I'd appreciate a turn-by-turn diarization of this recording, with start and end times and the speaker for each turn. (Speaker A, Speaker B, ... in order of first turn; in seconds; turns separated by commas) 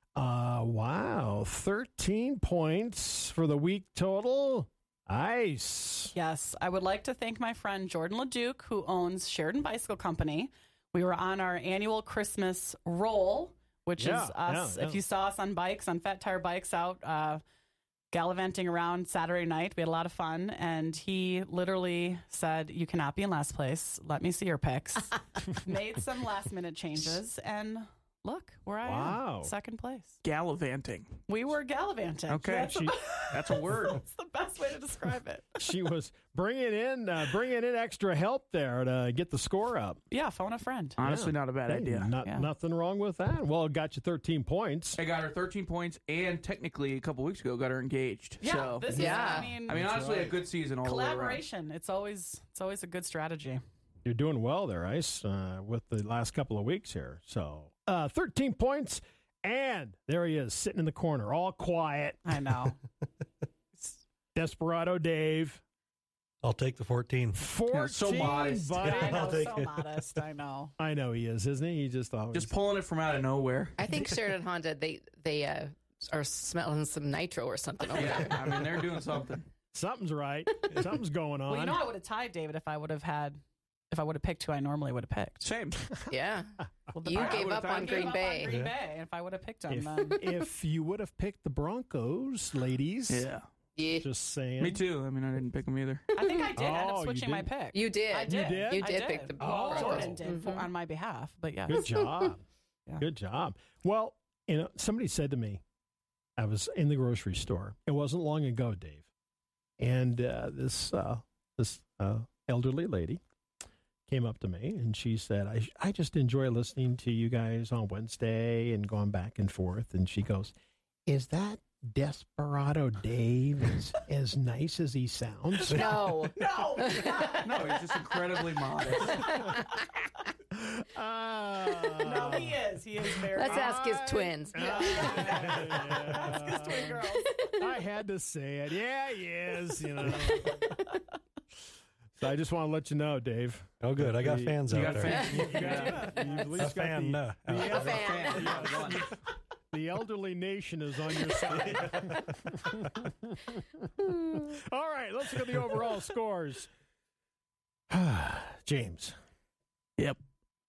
Speaker A: 0.2-6.1, Speaker B: 6.1-17.4, Speaker A: 14.0-15.0, Speaker B: 18.1-30.2, Speaker A: 28.8-29.5, Speaker C: 30.2-31.2, Speaker B: 31.3-35.5, Speaker C: 32.3-32.7, Speaker A: 32.7-33.0, Speaker C: 33.3-34.0, Speaker A: 35.6-40.0, Speaker B: 40.1-41.0, Speaker C: 41.0-42.1, Speaker A: 41.0-45.0, Speaker B: 42.2-42.5, Speaker C: 45.0-49.0, Speaker B: 48.4-49.8, Speaker A: 48.9-50.4, Speaker D: 48.9-49.5, Speaker C: 49.7-51.4, Speaker B: 50.8-53.6, Speaker A: 54.0-62.2, Speaker B: 62.2-62.8, Speaker A: 64.3-65.6, Speaker E: 66.4-67.4, Speaker A: 67.4-69.4, Speaker C: 67.7-68.9, Speaker B: 68.8-70.7, Speaker E: 69.0-69.7, Speaker A: 70.8-72.5, Speaker C: 72.3-73.8, Speaker D: 73.8-78.3, Speaker C: 77.9-79.5, Speaker A: 79.7-81.8, Speaker B: 81.5-85.5, Speaker C: 85.4-85.8, Speaker D: 86.1-88.5, Speaker B: 86.9-90.2, Speaker C: 87.1-88.2, Speaker E: 88.4-88.7, Speaker A: 89.7-93.3, Speaker C: 93.1-93.5, Speaker D: 93.8-94.1, Speaker A: 94.0-94.8, Speaker C: 94.6-96.0, Speaker B: 96.1-101.9, Speaker D: 96.2-96.5, Speaker A: 96.5-97.5, Speaker D: 97.7-100.7, Speaker A: 98.2-100.2, Speaker A: 101.7-102.4, Speaker D: 101.8-102.3, Speaker A: 103.0-105.6, Speaker A: 106.4-109.0, Speaker A: 109.8-113.2, Speaker A: 114.1-120.5, Speaker A: 121.1-126.0, Speaker D: 125.7-127.4, Speaker B: 126.4-127.5, Speaker C: 127.4-129.3, Speaker D: 129.1-129.9, Speaker A: 130.5-132.6, Speaker B: 132.0-133.8, Speaker D: 133.3-135.3, Speaker A: 133.4-137.0, Speaker B: 134.5-137.3, Speaker C: 135.0-135.7, Speaker A: 137.6-140.6, Speaker A: 142.2-149.1, Speaker E: 143.8-145.6, Speaker C: 144.7-146.1, Speaker D: 145.0-146.3, Speaker B: 145.6-146.6, Speaker E: 146.5-148.1, Speaker D: 147.5-148.7, Speaker C: 147.8-149.1, Speaker A: 149.7-156.7, Speaker E: 151.7-152.2, Speaker A: 157.9-159.2